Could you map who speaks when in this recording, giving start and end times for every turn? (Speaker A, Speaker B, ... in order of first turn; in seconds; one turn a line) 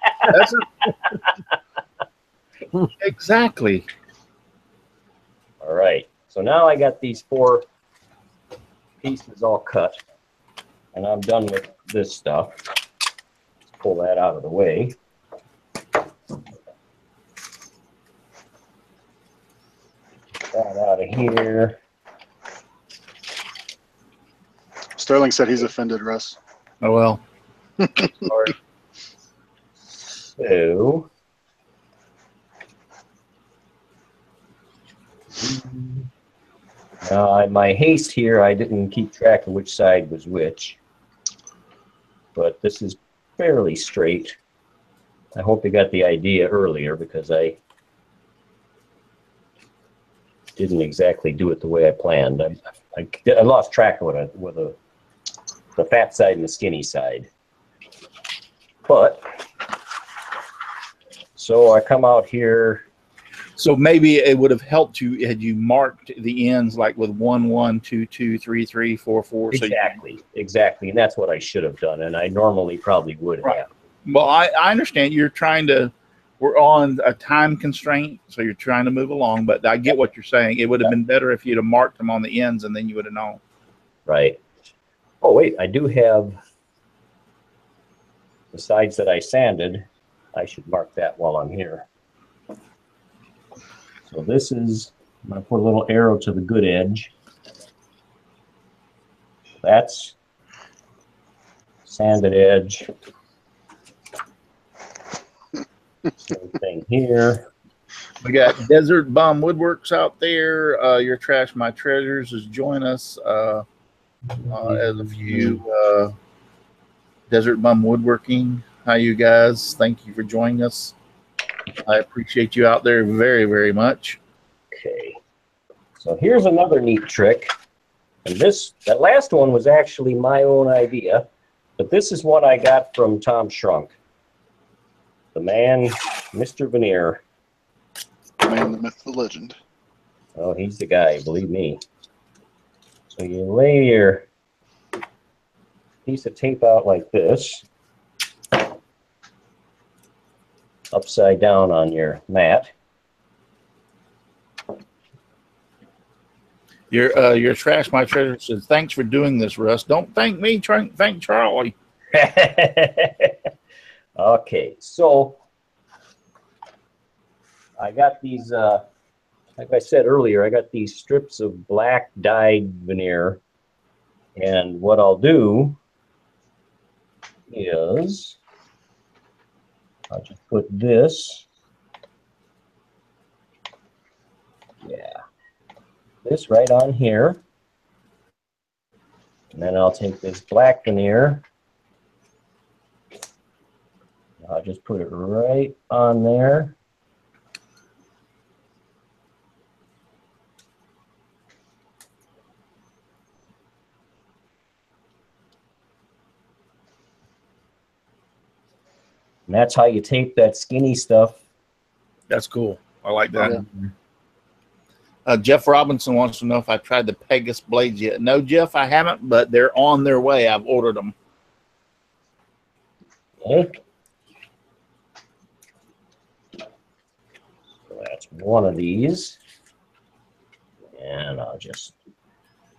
Speaker A: 0.3-0.9
Speaker A: 3.0-3.9
Speaker B: 5.6-7.6
Speaker B: 9.0-10.0
Speaker B: 10.9-12.6
Speaker B: 13.7-14.9
Speaker B: 20.5-21.8
Speaker C: 25.0-26.4
Speaker A: 26.8-27.2
Speaker B: 28.2-28.5
Speaker B: 30.4-31.1
Speaker B: 35.4-36.1
Speaker B: 37.0-40.8
Speaker B: 42.4-44.3
Speaker B: 45.4-47.6
Speaker B: 50.6-54.8
Speaker B: 55.8-57.3
Speaker B: 58.8-59.2
Speaker B: 61.4-62.8
Speaker A: 63.6-70.0
Speaker B: 69.5-73.7
Speaker A: 73.4-83.4
Speaker B: 84.1-84.4
Speaker B: 85.2-86.4
Speaker B: 88.5-91.8
Speaker B: 94.0-97.1
Speaker B: 99.6-100.1
Speaker B: 101.8-102.9
Speaker B: 106.2-107.5
Speaker A: 108.2-113.6
Speaker A: 114.5-116.1
Speaker A: 117.3-120.9
Speaker A: 121.8-124.2
Speaker B: 124.7-125.2
Speaker B: 126.0-127.5
Speaker B: 128.2-131.2
Speaker B: 131.8-133.9
Speaker B: 135.3-137.2
Speaker C: 138.4-139.6
Speaker B: 140.3-141.8
Speaker B: 143.1-144.2
Speaker B: 146.1-147.6
Speaker B: 150.9-152.7
Speaker A: 156.9-161.7
Speaker B: 162.1-163.3
Speaker B: 164.2-165.4
Speaker B: 167.8-168.8
Speaker B: 169.6-173.4
Speaker B: 174.3-175.8
Speaker B: 177.5-178.4
Speaker B: 180.1-181.4
Speaker B: 184.8-185.2
Speaker B: 186.2-187.4
Speaker B: 189.5-191.4
Speaker B: 194.4-196.8
Speaker B: 209.5-211.4
Speaker A: 212.3-213.6
Speaker B: 213.4-213.9
Speaker A: 215.2-221.1
Speaker B: 223.4-223.7
Speaker B: 227.9-229.4
Speaker B: 230.9-231.9